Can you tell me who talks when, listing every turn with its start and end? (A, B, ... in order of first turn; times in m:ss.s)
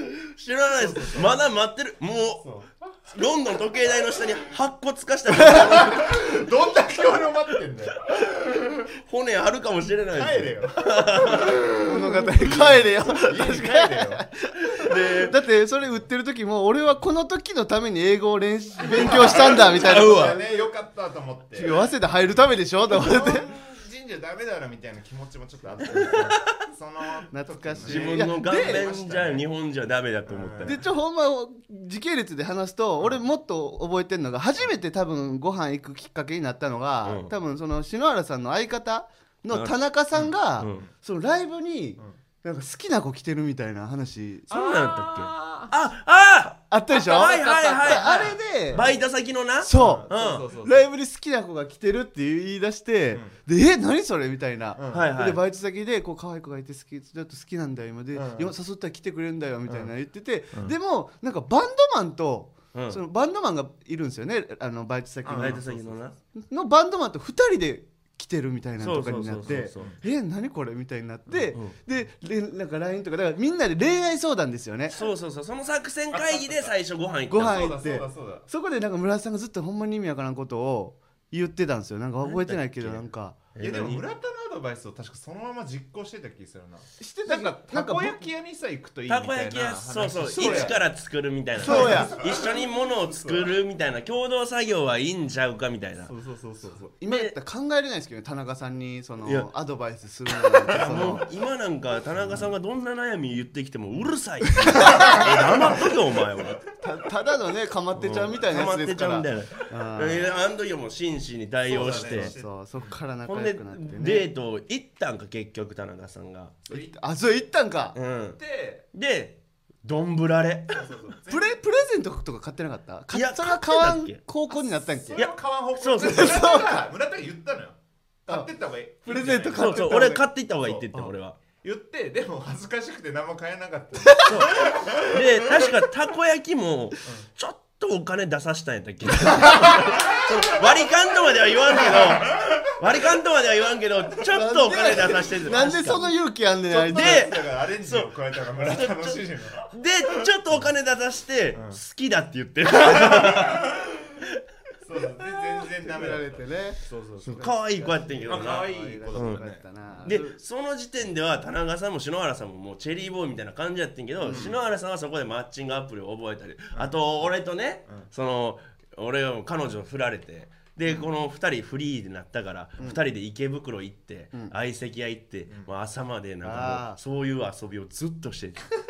0:00.2-0:02.5 A
0:00.8-0:01.4 B
0:02.4-0:02.7 B
0:03.1-0:06.2 A
0:05.4-0:08.9 B
0:09.0-0:11.6 A
0:10.2-0:14.2 B
0:11.8-0:20.5 C
0:14.6-0:15.4 A
0:18.8-0:21.9 B
0:19.5-0:20.4 A
0:21.5-0:23.4 C
0:22.9-0:29.4 B
0:26.0-0:26.5 A
0:27.3-0:28.8 C
0:27.8-0:30.8 A
0:30.3-0:30.8 B
0:30.6-0:44.5 C
0:37.0-0:37.3 A
0:40.6-0:40.9 A
0:44.5-0:45.7 B
0:44.5-0:50.4 A
0:46.7-0:48.9 C
0:47.7-0:48.9 B
0:49.6-1:05.6 C
0:49.7-0:50.9 B
0:54.8-0:55.1 B
0:54.9-0:55.4 A
0:58.1-0:58.5 B
0:59.7-0:59.9 B
1:02.7-1:03.0 A
1:05.2-1:06.0 B
1:05.4-1:06.2 A
1:06.4-1:15.0 C
1:08.8-1:09.9 A
1:11.5-1:11.8 A
1:14.9-1:17.7 A
1:16.1-1:16.7 B
1:17.3-1:23.4 C
1:17.4-1:18.5 B
1:22.2-1:24.0 A
1:23.6-1:30.8 B
1:27.0-1:28.3 C
1:29.1-1:36.1 A
1:30.3-1:30.8 C
1:31.6-1:32.2 C
1:31.6-1:33.5 B
1:36.0-1:36.9 B
1:37.0-1:41.2 C
1:37.0-1:37.3 A
1:39.2-1:39.5 A
1:40.7-1:46.6 A
1:44.7-1:45.4 C
1:44.8-1:46.6 B
1:46.8-1:50.3 C
1:48.0-1:52.3 A
1:51.7-1:53.0 B
1:51.7-1:54.3 C
1:53.2-1:56.6 A
1:56.7-1:57.0 B
1:56.7-1:58.0 C
1:57.9-1:58.4 A
1:58.4-1:58.9 B
1:58.9-2:00.8 A
2:00.7-2:01.6 B
2:01.3-2:05.2 C
2:03.1-2:04.2 A
2:04.8-2:09.9 B
2:05.2-2:06.4 A
2:06.0-2:06.8 C
2:09.0-2:10.2 C
2:09.5-2:11.4 A
2:10.6-2:10.9 B
2:11.6-2:15.6 B
2:14.0-2:14.5 C
2:14.2-2:26.1 A
2:19.4-2:20.1 B
2:21.7-2:22.7 B
2:24.3-2:27.3 C
2:26.7-2:30.7 B
2:26.9-2:33.7 A
2:31.5-2:31.8 B
2:32.8-2:34.0 B
2:34.8-2:37.5 B
2:35.2-2:40.4 C
2:37.2-2:39.4 A
2:38.2-2:40.0 B
2:40.0-2:58.7 A
2:44.2-2:44.5 C
2:44.2-2:44.6 B
2:46.7-2:47.2 B
2:56.4-2:57.0 C